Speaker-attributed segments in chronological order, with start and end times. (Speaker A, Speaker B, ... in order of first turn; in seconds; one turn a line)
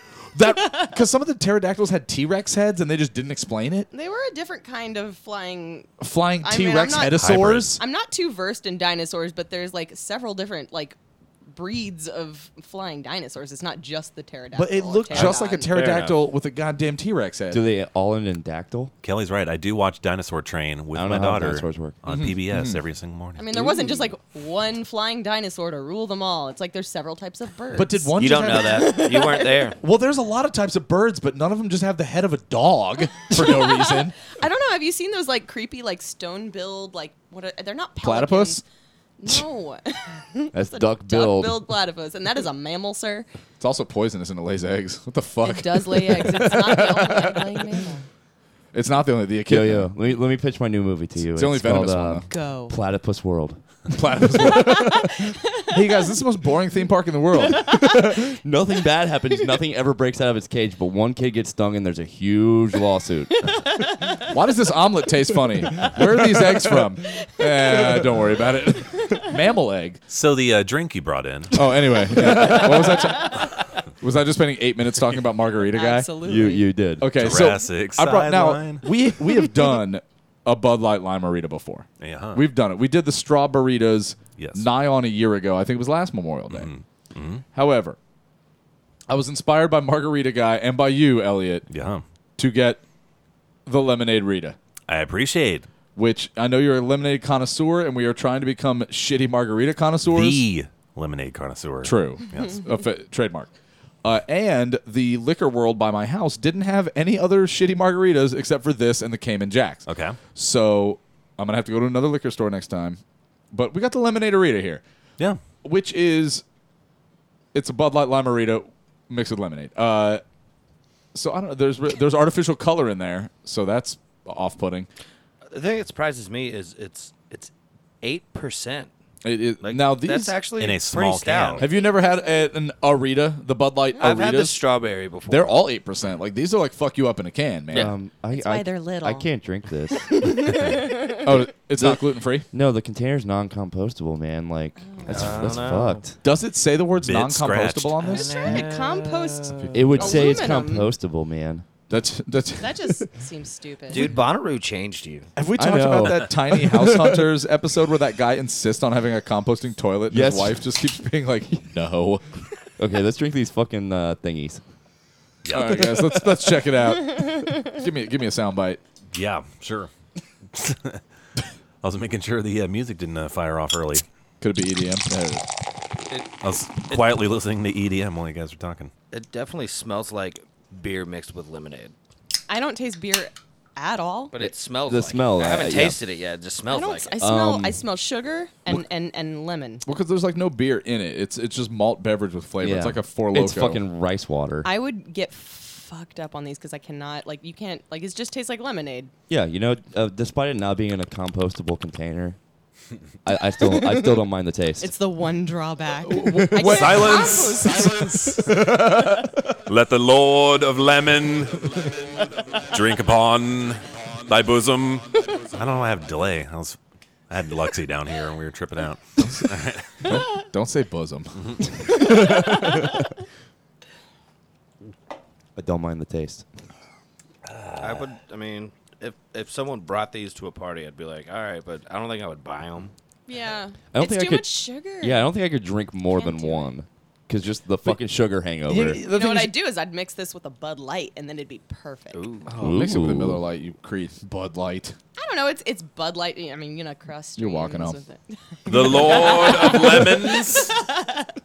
Speaker A: 0.3-3.9
Speaker B: 3.9-5.9
Speaker A: 6.0-7.8
Speaker B: 6.4-11.0
Speaker C: 7.1-7.7
Speaker B: 11.5-15.7
Speaker A: 14.5-17.6
Speaker D: 15.2-16.2
Speaker E: 17.5-18.9
Speaker C: 19.0-23.4
Speaker E: 20.9-22.0
Speaker A: 22.1-22.8
Speaker B: 23.4-29.6
Speaker A: 27.7-29.1
Speaker D: 28.1-29.8
Speaker A: 29.8-34.2
Speaker B: 33.3-38.6
Speaker A: 38.0-38.6
Speaker B: 39.2-43.3
Speaker E: 40.5-41.6
Speaker A: 43.6-47.7
Speaker B: 45.4-48.0
Speaker A: 48.7-49.9
Speaker E: 49.5-53.6
Speaker A: 51.3-52.3
Speaker B: 52.3-52.7
Speaker A: 53.9-58.4
Speaker B: 54.7-55.6
Speaker E: 58.4-63.3
Speaker B: 63.4-64.1
Speaker A: 64.3-70.0
Speaker C: 70.1-71.6
Speaker A: 71.5-76.1
Speaker B: 75.7-76.7
Speaker E: 76.2-77.4
Speaker A: 77.0-86.7
Speaker C: 77.1-78.9
Speaker C: 82.0-82.4
Speaker C: 84.4-84.7
Speaker C: 86.5-87.4
Speaker A: 87.5-88.0
Speaker A: 89.1-91.6
Speaker C: 91.7-92.0
Speaker A: 92.4-92.8
Speaker A: 93.7-94.5
Speaker C: 94.9-95.7
Speaker A: 96.0-100.4
Speaker C: 100.1-102.5
Speaker A: 101.8-103.5
Speaker A: 104.0-113.0
Speaker C: 109.9-110.2
Speaker A: 113.5-114.8
Speaker A: 115.6-116.4
Speaker A: 117.5-120.2
Speaker A: 121.1-124.9
Speaker D: 125.5-127.5
Speaker D: 128.0-128.9
Speaker A: 129.2-130.4
Speaker D: 129.6-131.7
Speaker C: 130.6-131.6
Speaker A: 131.6-134.6
Speaker D: 133.9-135.6
Speaker A: 135.3-137.9
Speaker E: 137.7-140.5
Speaker B: 138.3-139.3
Speaker B: 139.9-141.2
Speaker A: 141.2-142.4
Speaker E: 141.2-146.1
Speaker B: 144.8-145.4
Speaker D: 145.1-146.1
Speaker A: 146.2-148.6
Speaker C: 147.0-147.9
Speaker D: 148.0-149.7
Speaker B: 148.0-150.9
Speaker A: 149.6-150.5
Speaker E: 149.7-151.7
Speaker A: 151.9-153.0
Speaker B: 152.6-154.1
Speaker D: 153.9-155.3
Speaker A: 155.3-162.2
Speaker E: 155.5-157.3
Speaker E: 160.1-160.7
Speaker E: 162.8-164.6
Speaker C: 165.4-166.2
Speaker A: 165.5-168.8
Speaker C: 169.1-169.9
Speaker C: 170.5-171.0
Speaker C: 171.8-174.0
Speaker A: 174.4-175.4
Speaker D: 176.1-177.0
Speaker C: 176.4-178.9
Speaker D: 179.1-181.9
Speaker B: 182.5-184.3
Speaker D: 184.3-187.2
Speaker E: 184.4-186.0
Speaker B: 186.7-189.8
Speaker E: 187.2-187.8
Speaker A: 189.8-193.8
Speaker E: 192.6-194.7
Speaker B: 194.6-199.1
Speaker E: 199.3-202.4
Speaker E: 203.2-204.9
Speaker B: 204.8-208.3
Speaker A: 206.1-209.3
Speaker C: 206.6-208.6
Speaker C: 209.7-211.8
Speaker C: 212.6-216.8
Speaker C: 217.3-219.9
Speaker A: 220.0-223.1
Speaker E: 225.6-226.4
Speaker C: 227.5-228.1
Speaker D: 227.8-232.9
Speaker B: 233.3-235.2
Speaker E: 233.9-239.0
Speaker B: 236.1-236.7
Speaker A: 238.7-239.5
Speaker B: 239.1-242.2
Speaker D: 242.1-242.5
Speaker A: 242.5-244.9
Speaker E: 242.5-243.4
Speaker B: 245.2-251.3
Speaker A: 247.4-248.0
Speaker C: 248.7-250.7
Speaker A: 248.7-250.1